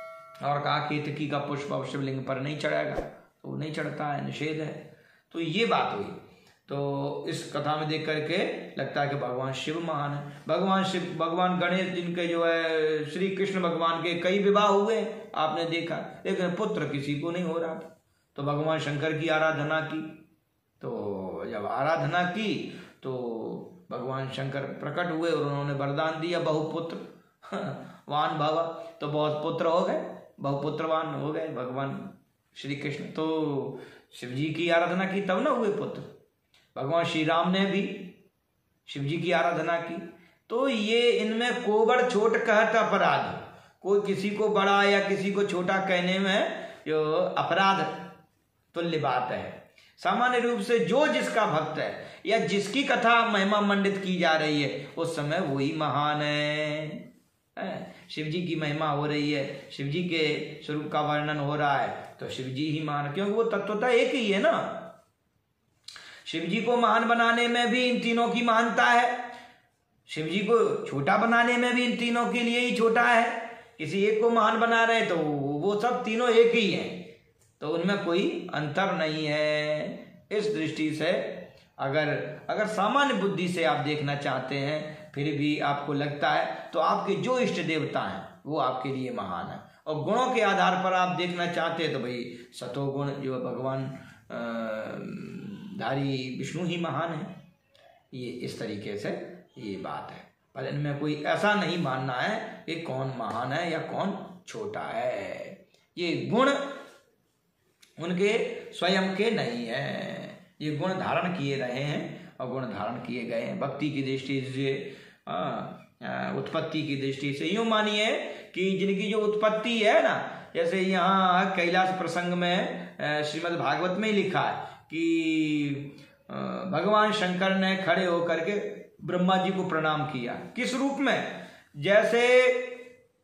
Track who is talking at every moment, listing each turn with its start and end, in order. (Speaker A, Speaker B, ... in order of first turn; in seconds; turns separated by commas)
Speaker A: 0.4-20.1, Speaker A: 20.8-36.1, Speaker A: 36.8-38.2, Speaker A: 38.9-48.1, Speaker A: 48.7-64.9, Speaker A: 66.2-69.2, Speaker A: 70.1-77.1, Speaker A: 77.6-97.4, Speaker A: 98.1-106.6, Speaker A: 108.0-132.8